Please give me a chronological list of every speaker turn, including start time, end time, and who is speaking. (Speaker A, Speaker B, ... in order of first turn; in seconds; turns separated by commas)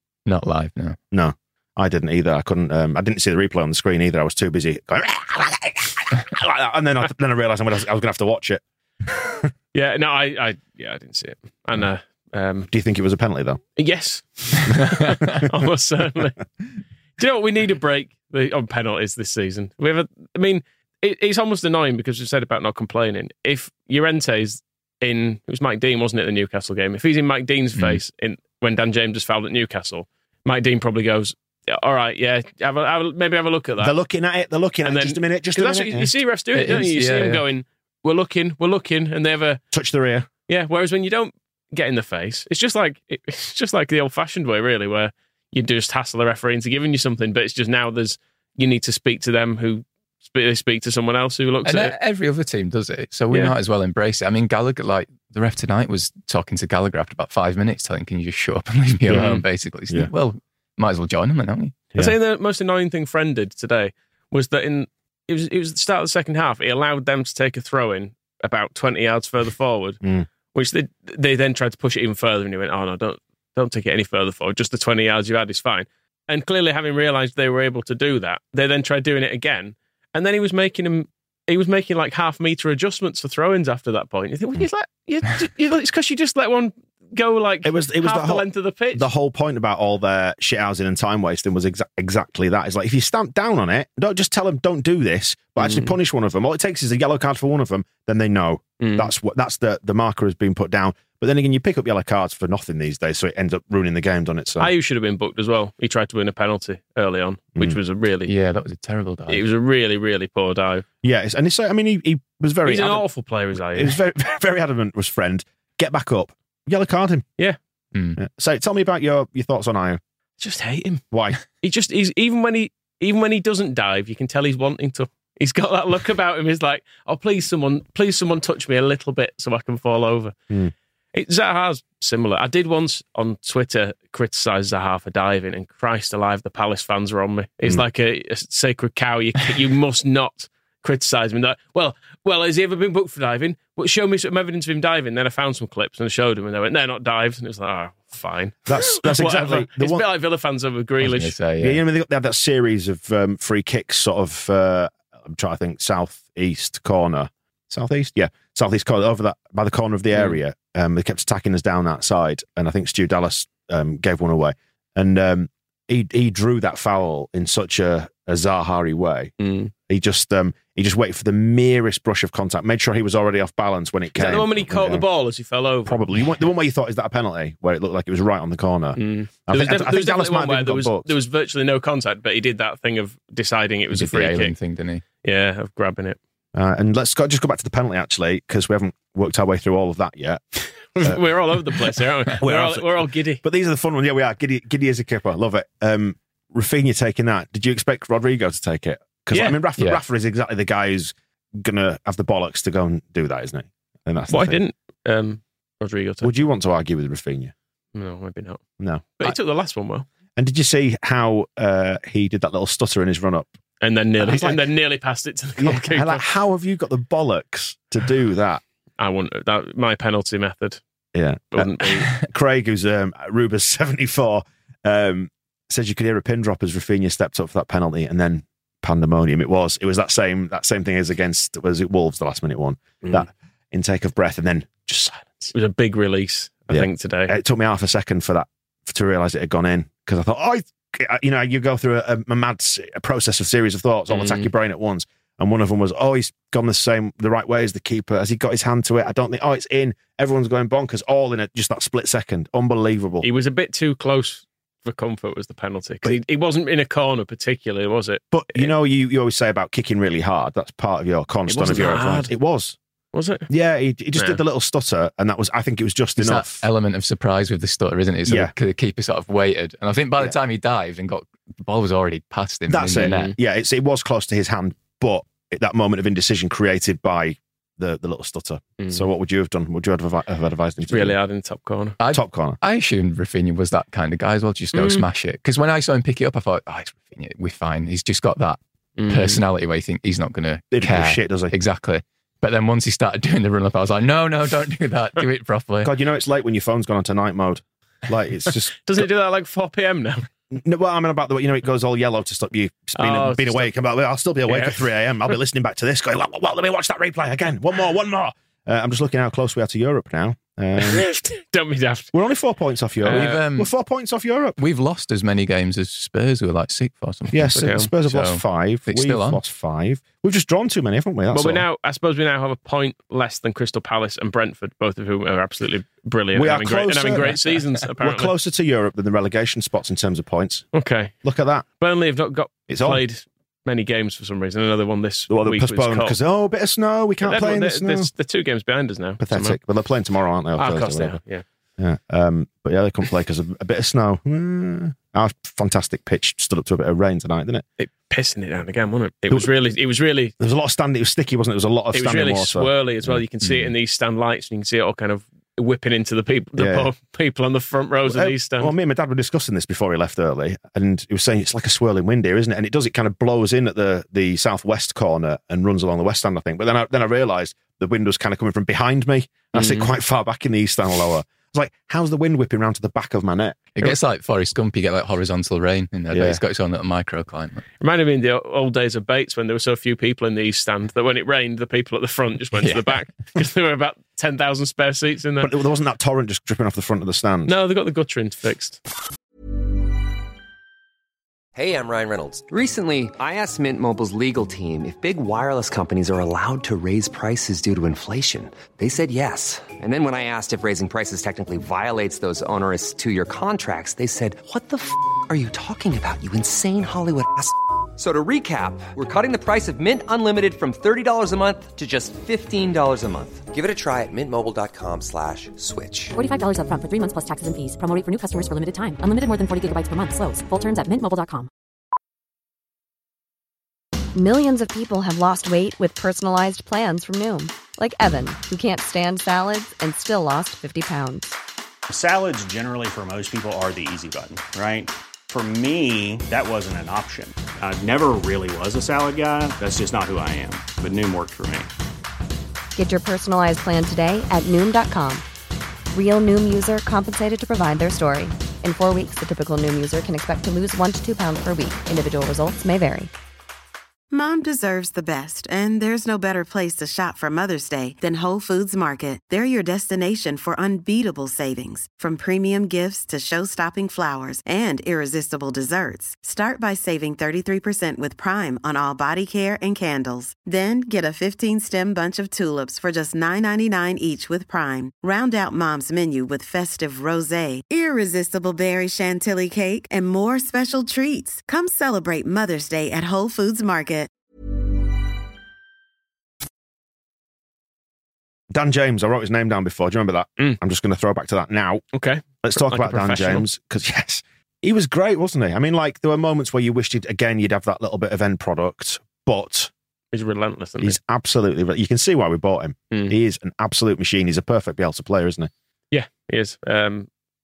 Speaker A: 0.2-1.0, Speaker B: 1.1-8.6, Speaker C: 9.7-12.7, Speaker B: 12.7-13.6, Speaker C: 13.8-16.4, Speaker C: 17.2-33.9, Speaker B: 33.8-36.1, Speaker C: 34.8-39.6, Speaker A: 36.5-37.4, Speaker B: 39.7-40.3, Speaker C: 40.5-51.9, Speaker A: 51.6-61.9, Speaker B: 59.1-59.4, Speaker C: 59.1-59.4, Speaker C: 62.0-70.0, Speaker B: 70.0-70.3, Speaker C: 70.5-89.1, Speaker B: 87.6-104.7, Speaker C: 95.6-95.9, Speaker C: 98.8-99.1, Speaker C: 104.6-108.3, Speaker A: 108.3-109.4, Speaker C: 109.3-110.8, Speaker B: 111.0-113.0, Speaker C: 112.6-114.0, Speaker B: 113.7-117.2, Speaker A: 117.9-118.2, Speaker B: 118.2-120.0, Speaker C: 120.4-121.0, Speaker B: 121.1-121.4, Speaker C: 121.6-130.3, Speaker C: 131.1-151.3, Speaker B: 148.7-150.0, Speaker A: 151.0-151.8, Speaker B: 151.6-169.3, Speaker C: 169.4-169.7, Speaker B: 169.9-175.0, Speaker C: 174.2-176.0, Speaker B: 175.8-181.1, Speaker C: 179.0-184.6, Speaker A: 183.9-185.0, Speaker C: 185.2-186.2, Speaker B: 186.5-190.4, Speaker C: 190.9-193.4, Speaker B: 192.4-204.6, Speaker C: 199.3-199.6, Speaker C: 204.3-206.4, Speaker B: 206.2-207.5, Speaker C: 207.9-208.6, Speaker B: 208.8-209.4, Speaker C: 209.2-210.1, Speaker B: 210.3-213.5, Speaker C: 213.8-216.2, Speaker B: 214.2-214.6, Speaker B: 215.6-218.6, Speaker C: 219.0-220.8, Speaker B: 221.1-235.5, Speaker C: 221.5-222.1, Speaker C: 235.5-237.3, Speaker B: 236.7-253.2, Speaker C: 244.1-244.5, Speaker C: 253.2-258.7, Speaker B: 258.3-262.8, Speaker C: 261.5-262.3, Speaker C: 263.1-263.5, Speaker B: 263.5-266.6, Speaker C: 264.1-264.4, Speaker A: 266.2-273.2, Speaker B: 268.3-268.5, Speaker B: 272.7-281.1, Speaker C: 272.9-273.3, Speaker C: 280.9-282.0, Speaker A: 282.0-295.9, Speaker B: 282.1-282.6, Speaker C: 284.7-285.0, Speaker C: 289.0-289.4, Speaker B: 290.7-291.5, Speaker B: 295.8-298.9, Speaker C: 298.8-300.2, Speaker B: 300.5-311.1, Speaker C: 303.0-303.7, Speaker C: 304.5-304.9, Speaker C: 310.8-312.1, Speaker B: 312.1-314.6, Speaker C: 313.0-313.4, Speaker A: 313.1-313.7, Speaker A: 314.6-319.4, Speaker B: 317.3-321.6, Speaker C: 317.5-317.9, Speaker C: 321.3-328.3, Speaker B: 326.3-327.3, Speaker A: 327.1-327.6, Speaker B: 328.0-330.7, Speaker C: 330.7-331.1, Speaker B: 331.2-331.7, Speaker C: 331.8-336.2, Speaker B: 332.7-333.0, Speaker B: 335.3-338.1, Speaker C: 337.2-339.6, Speaker B: 339.2-341.2, Speaker C: 340.6-341.4, Speaker B: 341.8-347.6, Speaker C: 347.8-350.3, Speaker B: 350.4-353.2, Speaker C: 351.9-358.7, Speaker A: 353.4-353.7, Speaker B: 356.6-356.9, Speaker B: 358.0-373.7, Speaker C: 369.5-369.9, Speaker A: 373.8-377.6, Speaker B: 376.1-376.4, Speaker C: 377.8-385.5, Speaker A: 382.6-382.9, Speaker B: 385.4-387.5, Speaker C: 387.5-388.8, Speaker D: 391.5-416.1, Speaker E: 416.1-421.5, Speaker F: 424.1-431.3, Speaker G: 431.9-441.7, Speaker F: 442.8-445.2, Speaker F: 445.9-453.1, Speaker H: 454.1-484.1, Speaker B: 488.5-491.8, Speaker C: 491.9-493.4, Speaker B: 492.4-499.7, Speaker C: 500.1-501.0, Speaker B: 500.8-505.5, Speaker C: 505.9-507.1